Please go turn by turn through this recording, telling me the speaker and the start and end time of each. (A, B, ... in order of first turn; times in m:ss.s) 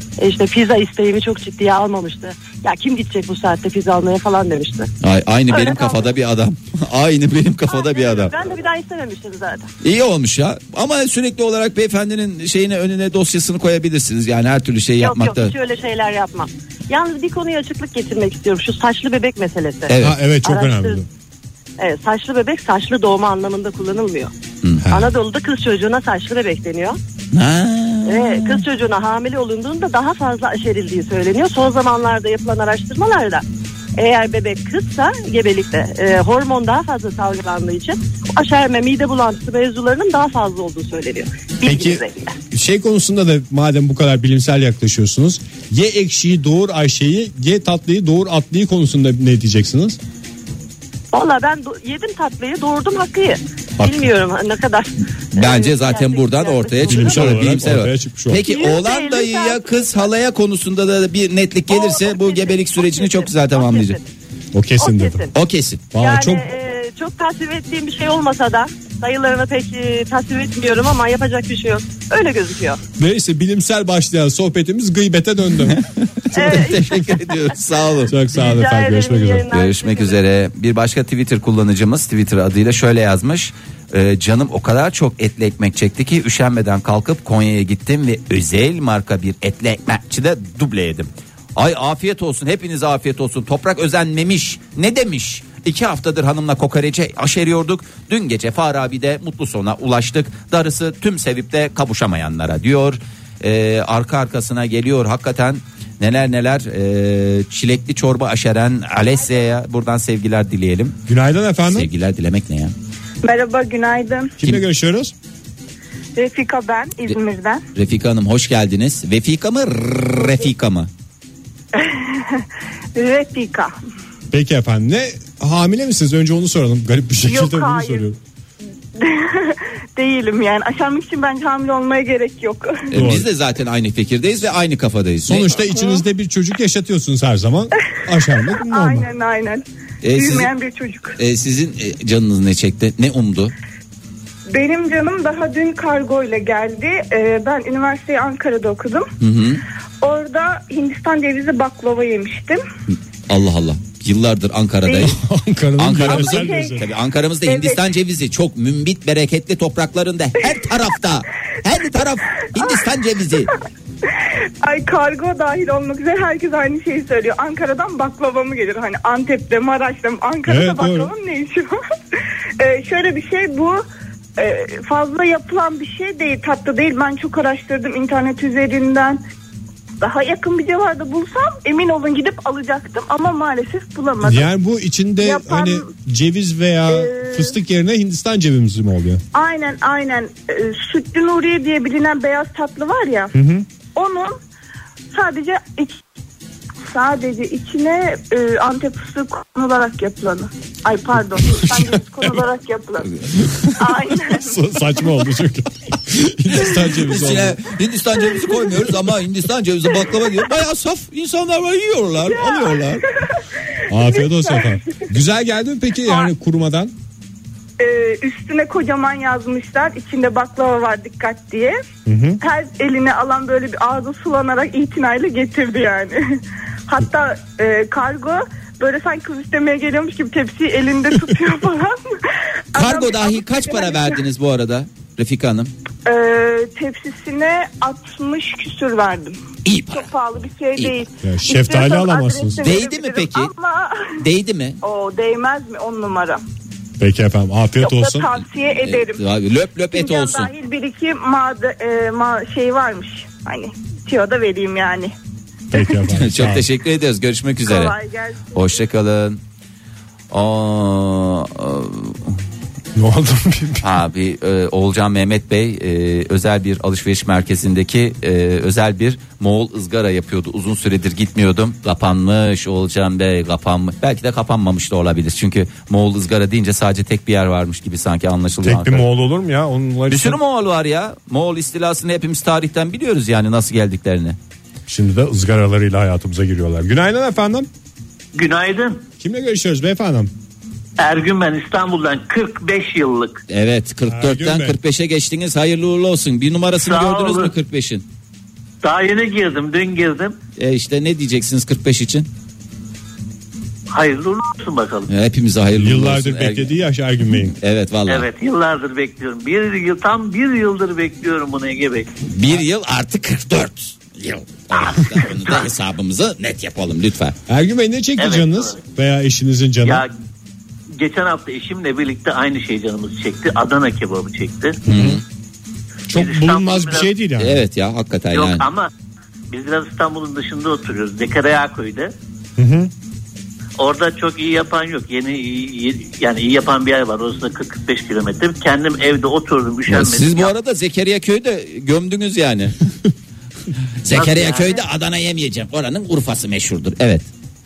0:00.2-0:04.9 A
0:05.0-0:08.3 B
0:05.5-0:06.1 A
0:07.7-0:09.7 A
0:09.8-0:15.5 B
0:15.0-0:21.0 A
0:19.9-0:20.2 B
0:20.0-0:21.1 C
0:21.8-0:24.3 A
0:24.9-0:27.0 A
0:27.3-0:28.6 B
0:28.0-0:33.4 A
0:34.0-0:42.3 A
0:41.6-0:42.0 C
0:42.5-0:50.0 C
0:51.1-0:57.5 A
0:53.8-0:54.1 C
0:55.3-1:04.0 B
0:56.9-0:58.4 C
0:58.4-0:59.9 A
1:01.7-1:04.0 A
1:04.5-1:05.2 C
1:04.8-1:05.3 A
1:05.3-1:05.8 B
1:05.9-1:06.4 C
1:06.0-1:12.8 A
1:13.0-1:15.8 C
1:15.7-1:18.2 B
1:16.4-1:17.2 A
1:18.1-1:19.5 C
1:18.3-1:20.2 A
1:19.5-1:51.0 B
1:51.1-1:51.9 C
1:51.6-1:52.7 B
1:53.2-1:54.4 D
1:54.4-1:55.1 C
1:56.2-1:57.6 D
1:57.8-2:00.9 B
2:01.8-2:02.4 D
2:03.0-2:03.7 D
2:04.3-2:08.2 C
2:07.3-2:08.1 D
2:09.0-2:12.9 D
2:12.9-2:15.6 B
2:12.9-2:13.3 C
2:15.3-2:19.1 C
2:15.8-2:16.0 D
2:18.6-2:21.2 D
2:20.0-2:20.5 B
2:21.2-2:23.5 B
2:24.5-2:29.1 D
2:29.2-2:29.6 B
2:30.0-2:32.6 D
2:33.3-2:35.2 B
2:35.0-2:36.8 C
2:35.8-2:43.5 B
2:36.1-2:36.8 D
2:37.5-2:37.8 D
2:44.6-2:51.8 D
2:50.5-2:51.1 C
2:52.6-2:53.8 D
2:54.4-2:59.2 D
3:00.0-3:04.5 D
3:04.2-3:09.2 C
3:05.2-3:05.9 D
3:06.9-3:07.6 D
3:09.3-3:13.3 D
3:13.3-3:13.6 C
3:14.0-3:14.4 D
3:15.1-3:16.0 D
3:16.9-3:23.1 D
3:21.4-3:22.3 C
3:23.8-3:24.5 D
3:24.3-3:27.6 C
3:26.6-3:33.1 B
3:32.3-3:32.9 D
3:33.9-3:36.9 C
3:34.0-3:34.8 D
3:37.8-3:41.8 D
3:42.1-3:42.4 C
3:42.4-3:46.2 D
3:46.9-3:52.0 D
3:52.8-3:54.2 D
3:52.8-3:55.7 B
3:56.1-3:59.4 D
3:59.6-4:00.1 B
3:59.9-4:04.0 D
4:00.8-4:01.0 B
4:01.2-4:02.7 C
4:02.6-4:03.5 B
4:04.2-4:04.8 B
4:04.8-4:06.4 D
4:07.0-4:08.3 C
4:07.8-4:09.2 D
4:08.8-4:10.5 B
4:09.9-4:15.1 D
4:15.7-4:16.7 C
4:16.1-4:18.0 B
4:17.7-4:18.5 D
4:18.5-4:19.4 B
4:20.3-4:22.4 B
4:23.0-4:23.8 C
4:23.8-4:39.1 B
4:38.6-4:40.4 C
4:40.1-4:44.4 B
4:44.9-4:47.7 C
4:48.3-4:49.0 E
4:49.2-4:50.3 C
4:51.0-4:53.4 E
4:53.5-4:58.0 B
4:54.1-4:54.8 C
4:56.8-4:57.5 E
4:58.8-5:00.4 E
5:00.6-5:02.3 B
5:03.9-5:05.1 E
5:05.1-5:06.7 B
5:05.8-5:07.6 C
5:07.6-5:08.3 B
5:08.1-5:12.1 E
5:12.3-5:17.4 B
5:14.9-5:15.6 E
5:17.5-5:20.1 C
5:18.2-5:18.8 E
5:19.8-5:20.1 E
5:21.0-5:24.8 E
5:24.9-5:25.2 B
5:24.9-5:25.2 C
5:26.1-5:27.6 C
5:26.1-5:27.1 E
5:27.4-5:28.7 B
5:28.3-5:28.9 E
5:29.5-5:32.1 E
5:32.6-5:32.9 C
5:33.8-5:40.5 E
5:39.9-5:42.8 B
5:44.0-5:47.3 B
5:44.1-5:44.8 E